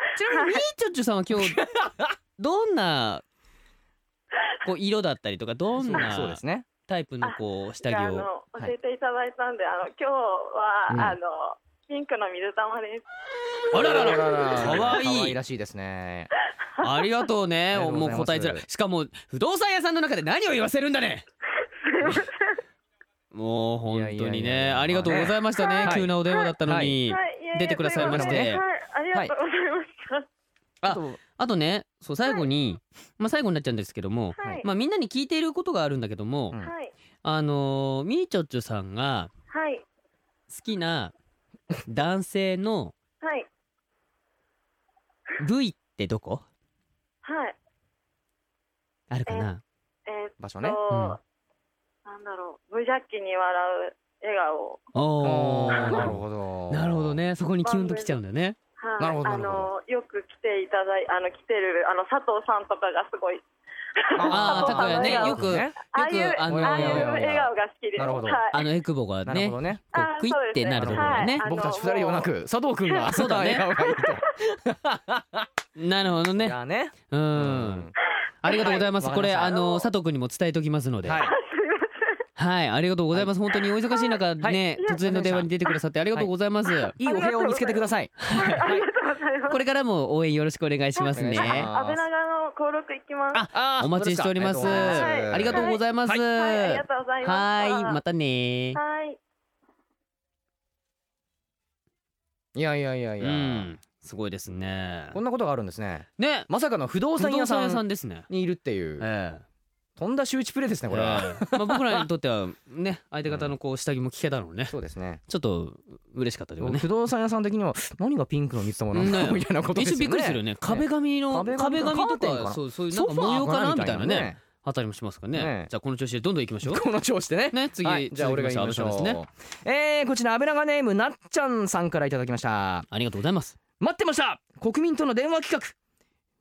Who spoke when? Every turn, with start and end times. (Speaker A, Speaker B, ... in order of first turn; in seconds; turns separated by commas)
Speaker A: 0.1-1.6, Speaker B: 0.3-0.6, Speaker C: 1.4-2.1, Speaker A: 2.4-3.2, Speaker A: 4.6-8.3, Speaker C: 5.8-6.7, Speaker B: 7.2-13.1, Speaker C: 10.9-11.2, Speaker A: 13.7-15.4, Speaker C: 13.7-16.3, Speaker B: 16.6-17.3, Speaker A: 16.8-21.2, Speaker C: 17.7-18.6, Speaker B: 21.6-22.6, Speaker A: 23.3-28.6, Speaker C: 23.9-26.1, Speaker B: 25.6-26.5, Speaker C: 26.6-27.0, Speaker B: 27.1-30.3, Speaker C: 28.0-28.5, Speaker A: 30.8-36.6, Speaker C: 30.9-31.2, Speaker B: 34.4-34.7, Speaker B: 36.6-36.9, Speaker A: 37.2-39.3, Speaker B: 39.5-39.9, Speaker A: 40.5-41.1, Speaker A: 41.9-42.9, Speaker B: 43.2-43.5, Speaker A: 45.4-46.5, Speaker B: 47.2-47.6, Speaker A: 49.1-49.6, Speaker B: 50.1-51.2, Speaker C: 50.4-50.8, Speaker A: 50.9-51.2, Speaker B: 52.1-54.8, Speaker A: 55.0-58.6, Speaker C: 55.2-57.2, Speaker B: 57.6-58.2, Speaker B: 58.8-63.4, Speaker C: 59.0-59.7, Speaker B: 64.0-68.7, Speaker C: 64.2-65.8, Speaker A: 64.3-67.2, Speaker C: 66.4-68.4, Speaker A: 68.5-71.4, Speaker C: 69.2-69.8, Speaker B: 69.9-72.3, Speaker C: 70.7-75.5, Speaker B: 72.9-73.2, Speaker A: 73.1-73.7, Speaker B: 73.8-74.3, Speaker A: 75.8-76.6, Speaker C: 76.3-77.9, Speaker A: 77.1-77.9, Speaker A: 78.4-81.3, Speaker B: 78.5-78.9, Speaker C: 79.0-79.6, Speaker B: 79.5-79.9, Speaker C: 81.0-81.3, Speaker B: 81.2-82.3, Speaker A: 82.4-87.0, Speaker B: 83.9-84.2, Speaker C: 84.4-85.5, Speaker B: 84.8-85.1, Speaker B: 86.8-89.6, Speaker C: 87.0-88.9, Speaker A: 88.2-88.6, Speaker A: 89.5-91.7, Speaker B: 91.0-93.5, Speaker C: 91.1-92.0, Speaker A: 93.3-98.8, Speaker C: 93.5-96.2, Speaker B: 94.6-98.0, Speaker B: 98.8-99.2, Speaker C: 102.5-103.7, Speaker A: 103.2-105.2, Speaker C: 105.1-109.1, Speaker A: 106.2-106.5, Speaker A: 107.2-108.3, Speaker A: 109.0-109.4, Speaker C: 110.0-112.0, Speaker A: 110.9-114.8, Speaker C: 113.2-113.5, Speaker C: 114.7-115.2, Speaker A: 115.3-116.9, Speaker C: 116.6-124.4, Speaker A: 118.9-126.9, Speaker C: 125.3-125.7, Speaker C: 126.6-132.9, Speaker A: 127.5-129.2, Speaker A: 132.9-133.6, Speaker C: 133.8-135.8